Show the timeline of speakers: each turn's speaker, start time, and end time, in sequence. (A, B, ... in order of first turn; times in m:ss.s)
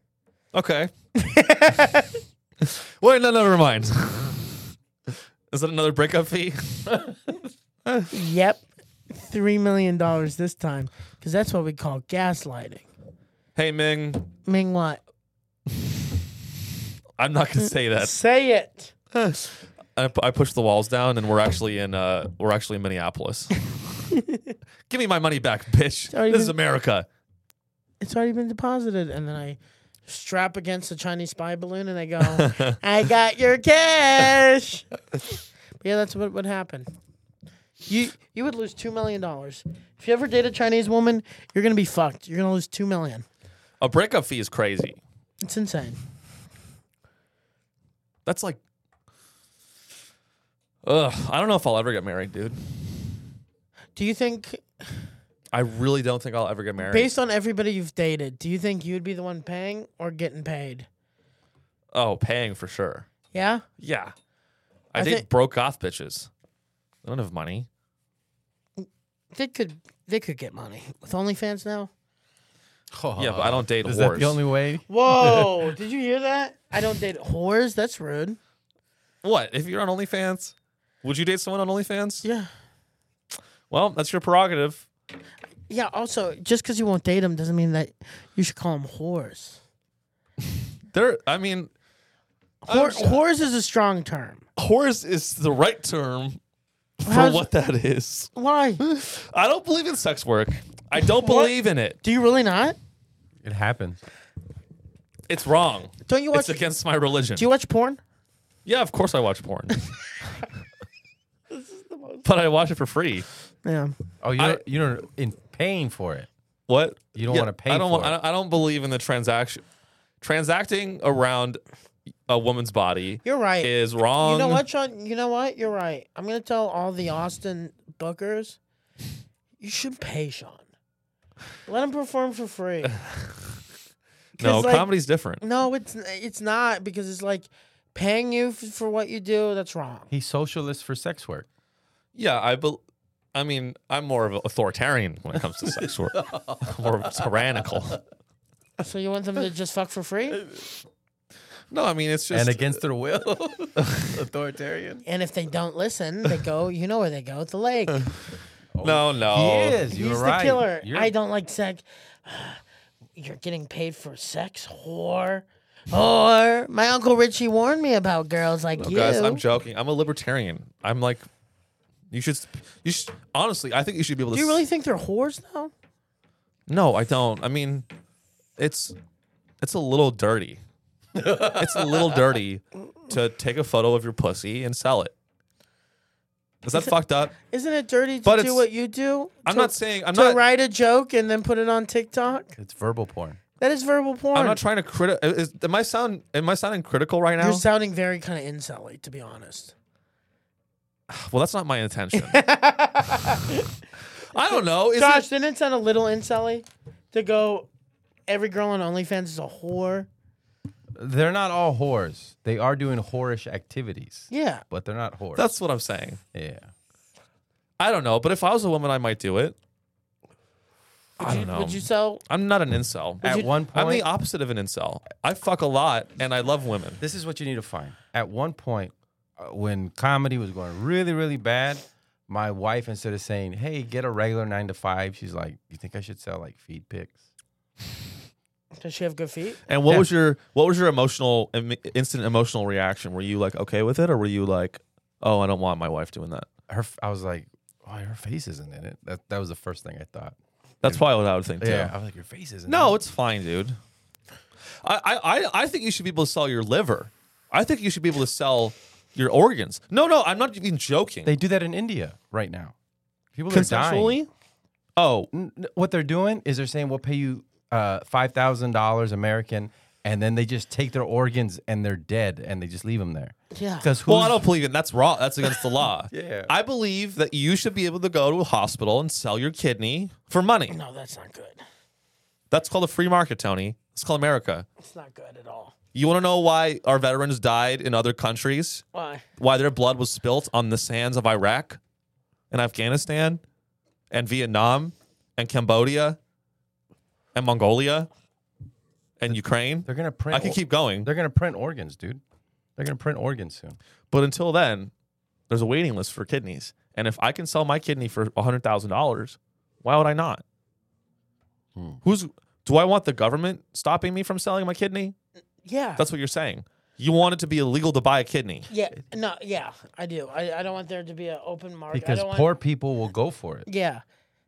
0:00.5-0:00.9 A
0:01.2-0:02.2 B
0:02.6-0:04.6 A
0:05.5-0:07.1 A
0:08.1-0:12.9 B
0:13.6-0:14.3 A
0:14.4-0:15.0 B
0:17.2-0:18.1 A
0:17.6-0:18.9 B
0:19.1-0:23.6 A
0:24.1-0:24.5 B
0:24.9-0:27.0 A
0:26.1-0:26.5 B
0:28.0-0:34.9 B
0:32.4-0:32.7 A
0:35.8-0:36.9 B
0:37.9-0:43.2 B
0:43.8-0:45.0 A
0:45.4-0:46.0 B
0:48.2-0:48.6 A
0:50.8-0:52.6 A
0:54.0-0:55.0 B
0:55.5-0:57.1 A
0:56.8-1:00.9 B
1:01.9-1:03.1 A
1:03.3-1:03.6 B
1:03.8-1:04.1 A
1:04.9-1:06.3 A
1:05.0-1:05.2 B
1:07.0-1:07.7 A
1:08.8-1:11.9 B
1:12.9-1:15.6 C
1:13.2-1:14.4 A
1:14.9-1:18.4 B
1:19.2-1:22.2 A
1:22.2-1:22.5 B
1:23.7-1:24.8 A
1:25.7-1:29.6 B
1:30.9-1:31.7 A
1:32.6-1:34.4 B
1:32.7-1:33.2 A
1:34.6-1:36.4 A
1:37.0-1:42.0 A
1:37.0-1:37.5 B
1:38.3-1:38.8 B
1:41.0-1:42.8 B
1:43.4-1:44.0 C
1:45.3-1:47.4 A
1:46.1-1:46.6 B
1:47.4-1:48.0 B
1:48.6-1:49.9 A
1:51.5-1:52.2 B
1:52.2-1:53.3 A
1:53.6-1:53.9 B
1:54.2-1:56.3 C
1:56.7-1:59.6 A
1:57.1-1:58.2 C
2:00.2-2:01.6 A
2:02.3-2:04.6 A
2:03.2-2:08.6 B
2:09.6-2:10.6 B
2:11.6-2:13.0 B
2:13.0-2:13.4 A
2:14.4-2:20.1 B
2:14.4-2:15.4 A
2:20.1-2:21.4 C
2:22.1-2:22.8 A
2:23.3-2:28.0 A
2:25.6-2:27.4 C
2:28.8-2:30.4 B
2:31.7-2:32.8 A
2:32.3-2:35.0 C
2:35.0-2:38.1 B
2:38.7-2:41.1 C
2:38.8-2:39.8 A
2:39.9-2:42.6 B
2:43.2-2:49.4 B
2:48.8-2:51.3 A
2:52.1-2:54.6 A
2:54.3-2:55.7 B
2:56.7-2:57.9 A
2:58.6-2:59.0 A
2:59.6-3:00.6 A
3:01.2-3:02.2 C
3:01.2-3:05.1 A
3:06.6-3:07.3 A
3:06.7-3:12.5 B
3:08.2-3:08.6 A
3:09.4-3:10.4 A
3:12.6-3:13.4 C
3:13.6-3:14.6 B
3:14.3-3:17.6 A
3:17.4-3:19.7 B
3:21.1-3:22.4 A
3:22.2-3:23.7 B
3:24.3-3:25.3 A
3:24.4-3:27.7 B
3:28.3-3:30.1 B
3:31.0-3:35.5 C
3:34.3-3:34.6 B
3:35.4-3:36.2 A
3:36.3-3:36.7 C
3:37.8-3:39.6 A
3:41.2-3:42.2 B
3:41.2-3:47.0 A
3:43.2-3:44.0 C
3:43.2-3:43.5 B
3:47.0-3:57.2 C
3:58.8-3:59.6 B
3:59.7-4:06.5 A
4:06.7-4:11.0 C
4:10.8-4:11.9 A
4:11.6-4:13.0 C
4:12.7-4:13.8 A
4:14.8-4:21.3 A
4:21.2-4:22.7 C
4:23.3-4:24.2 C
4:23.5-4:24.3 A
4:25.0-4:25.3 A
4:25.3-4:34.4 C
4:33.5-4:33.9 B
4:34.1-4:40.7 A
4:36.1-4:36.5 C
4:40.7-4:41.6 B
4:42.5-4:44.6 A
4:44.8-4:45.7 B
4:45.9-4:48.8 A
4:48.9-4:49.2 B
4:49.4-4:51.8 A
4:52.5-4:53.4 A
4:54.1-4:56.2 A
4:57.3-4:58.1 A
4:59.2-5:01.1 A
4:59.8-5:02.2 C
5:02.8-5:03.8 C
5:04.1-5:04.9 A
5:05.5-5:10.4 A
5:11.7-5:12.0 C
5:12.0-5:15.1 A
5:15.6-5:16.0 B
5:16.0-5:18.6 A
5:18.7-5:22.5 B
5:21.9-5:23.7 C
5:23.7-5:24.0 B